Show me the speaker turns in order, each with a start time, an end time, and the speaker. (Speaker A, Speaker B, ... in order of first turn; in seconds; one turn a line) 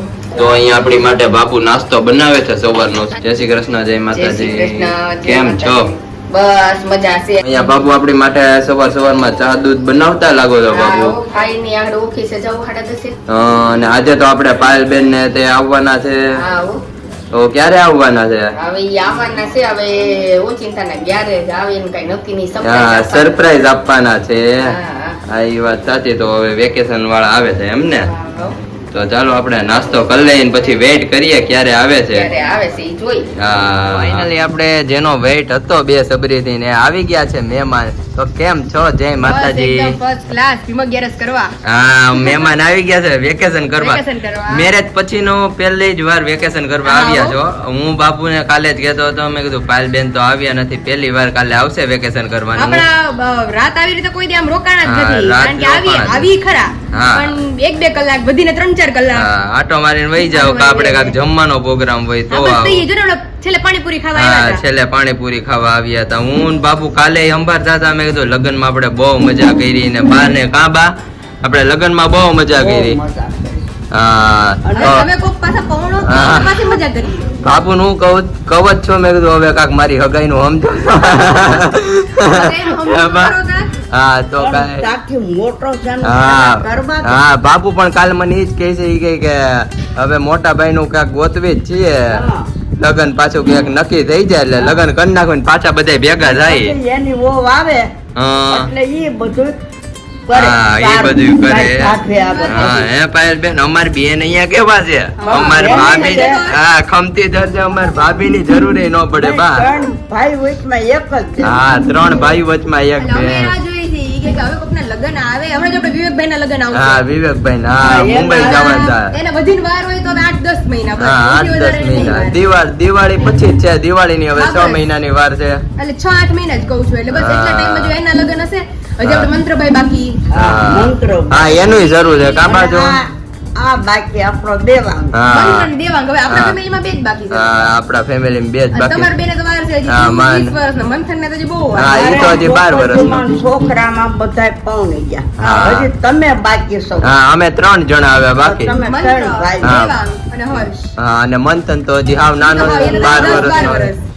Speaker A: 0.3-5.9
Speaker B: 4.1-7.6
Speaker A: 7.4-11.2
Speaker B: 10.7-13.2
Speaker A: 13.3-16.2
Speaker B: 16.4-16.8
Speaker A: 17.3-18.5
Speaker B: 18.6-23.3
Speaker A: 22.6-24.7
Speaker B: 24.6-25.2
Speaker A: 25.3-28.1
Speaker B: 28.1-28.6
Speaker A: 28.9-32.3
Speaker B: 32.1-33.3
Speaker A: 33.4-40.0
Speaker C: 39.2-41.5
Speaker A: 41.6-52.8
Speaker C: 42.1-42.5
Speaker C: 43.8-44.7
Speaker C: 46.8-47.4
Speaker C: 52.5-59.3
Speaker A: 54.8-56.3
Speaker A: 56.9-57.3
Speaker A: 59.1-62.8
Speaker C: 60.3-61.1
Speaker C: 62.3-64.6
Speaker A: 64.1-70.9
Speaker A: 71.4-73.0
Speaker D: 72.5-73.6
Speaker A: 73.9-75.1
Speaker D: 74.6-75.0
Speaker C: 74.8-77.3
Speaker A: 76.0-76.7
Speaker A: 77.4-83.3
Speaker C: 82.2-83.7
Speaker A: 83.9-84.9
Speaker D: 84.4-87.1
Speaker A: 86.0-92.2
Speaker D: 92.1-92.5
Speaker A: 92.8-96.7
Speaker D: 96.2-97.9
Speaker A: 98.2-98.7
Speaker D: 98.5-99.5
Speaker D: 100.2-102.9
Speaker A: 100.3-109.6
Speaker C: 102.1-102.8
Speaker C: 105.2-106.6
Speaker D: 105.3-106.4
Speaker D: 109.1-111.7
Speaker A: 111.4-113.5
Speaker C: 113.0-117.0
Speaker A: 116.7-119.1
Speaker D: 117.8-118.7
Speaker C: 117.9-122.4
Speaker A: 121.0-125.6
Speaker C: 124.3-124.8
Speaker C: 125.8-130.2
Speaker A: 127.1-128.0
Speaker A: 129.0-129.3
Speaker D: 130.3-131.9
Speaker A: 130.3-133.0
Speaker C: 131.8-132.5
Speaker D: 132.4-135.2
Speaker A: 135.1-135.7
Speaker C: 135.3-137.7
Speaker A: 136.3-136.6
Speaker A: 137.3-139.1
Speaker C: 138.7-142.5
Speaker A: 139.9-140.6
Speaker A: 141.7-143.2
Speaker D: 141.9-147.1
Speaker A: 145.4-145.9
Speaker A: 147.0-148.8
Speaker D: 148.4-149.8
Speaker C: 148.8-150.9
Speaker A: 149.6-149.9
Speaker A: 151.0-153.9
Speaker C: 152.4-154.0
Speaker D: 152.6-153.9